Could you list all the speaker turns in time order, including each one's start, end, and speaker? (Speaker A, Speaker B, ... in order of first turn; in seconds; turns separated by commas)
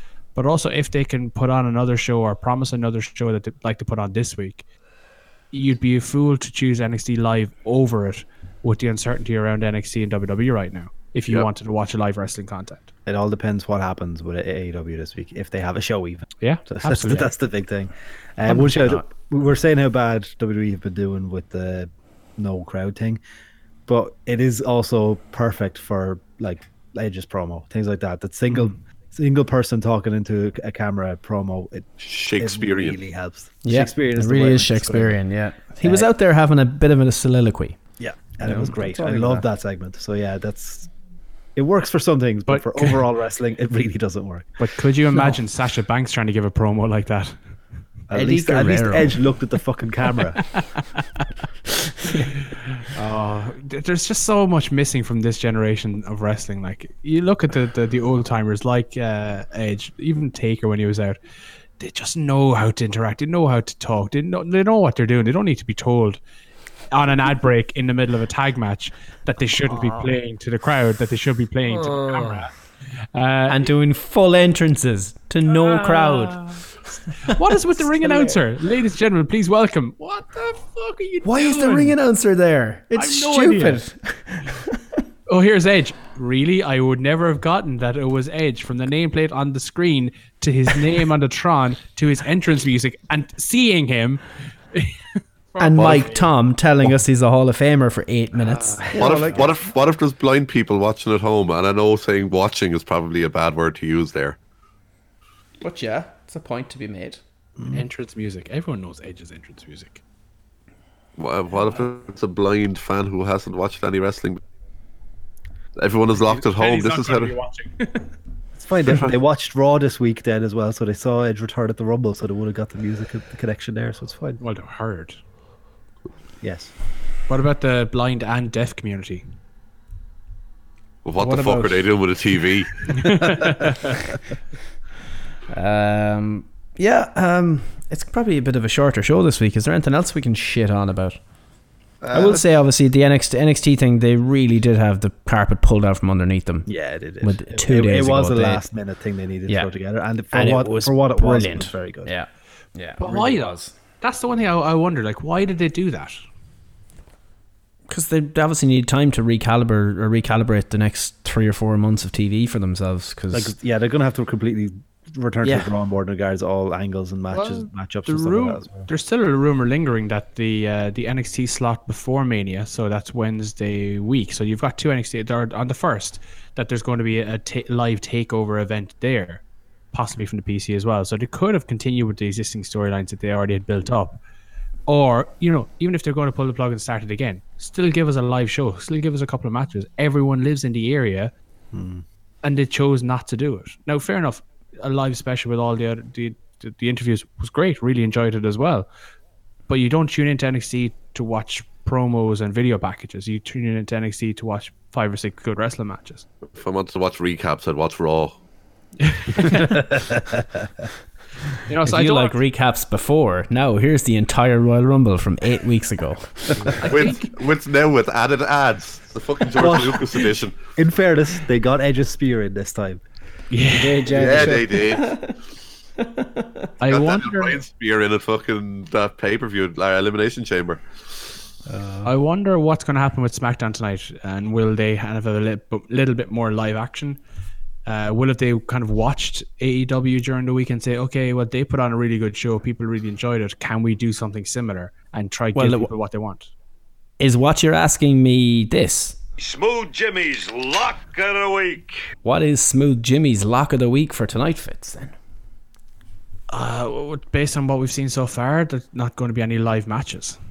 Speaker A: 0.3-4.7, Speaker A: 5.5-12.9, Speaker B: 13.1-23.2, Speaker A: 16.4-17.3, Speaker C: 18.5-19.0, Speaker B: 23.9-35.2, Speaker D: 32.0-33.0, Speaker C: 33.6-37.8, Speaker B: 35.8-36.1, Speaker B: 38.0-40.9, Speaker C: 38.4-39.5, Speaker B: 41.5-44.5, Speaker A: 42.5-43.0, Speaker A: 44.6-47.4, Speaker C: 45.1-45.4, Speaker B: 48.1-50.6, Speaker C: 48.1-49.2, Speaker A: 50.5-51.0, Speaker C: 52.0-52.3, Speaker A: 52.7-61.2, Speaker A: 61.8-66.2, Speaker A: 66.9-72.6, Speaker A: 73.1-73.7, Speaker C: 73.5-76.6, Speaker A: 75.5-76.7, Speaker A: 77.2-82.0, Speaker C: 81.2-85.0, Speaker A: 83.0-83.8, Speaker A: 85.3-95.0, Speaker A: 95.5-96.3, Speaker C: 95.6-99.5, Speaker D: 95.8-96.1, Speaker A: 98.4-99.5, Speaker D: 98.9-104.4, Speaker C: 105.6-107.2, Speaker A: 107.7-110.0, Speaker D: 111.2-114.4, Speaker D: 115.8-117.3, Speaker A: 116.3-118.1, Speaker B: 118.6-124.4, Speaker A: 124.4-125.2, Speaker B: 126.4-126.7, Speaker A: 127.3-129.3, Speaker D: 131.0-133.1, Speaker C: 131.2-131.8, Speaker A: 133.0-133.8, Speaker C: 135.5-141.3, Speaker D: 142.0-142.4, Speaker C: 142.1-146.7, Speaker B: 146.7-152.1, Speaker C: 147.2-148.6, Speaker C: 149.5-149.7, Speaker C: 150.3-153.7, Speaker A: 153.0-156.2, Speaker C: 157.9-163.5, Speaker B: 163.3-168.9, Speaker C: 165.4-165.7, Speaker A: 167.3-184.2, Speaker A: 184.9-191.3, Speaker B: 191.7-192.1, Speaker A: 192.4-198.9, Speaker A: 199.7-206.3, Speaker D: 206.5-208.4, Speaker A: 209.0-209.7, Speaker A: 211.7-212.4, Speaker C: 211.9-216.8, Speaker A: 216.8-217.3, Speaker D: 216.9-220.6, Speaker B: 219.6-223.0, Speaker A: 223.5-224.1, Speaker C: 223.7-225.4, Speaker D: 224.1-225.2, Speaker B: 224.2-224.6, Speaker C: 226.0-226.7, Speaker A: 226.8-227.6, Speaker D: 226.8-231.0, Speaker B: 231.7-232.1, Speaker A: 232.0-237.2, Speaker A: 237.9-246.5, Speaker C: 245.5-245.9, Speaker C: 247.2-249.2, Speaker E: 249.4-252.0, Speaker C: 252.2-255.2, Speaker A: 256.5-260.4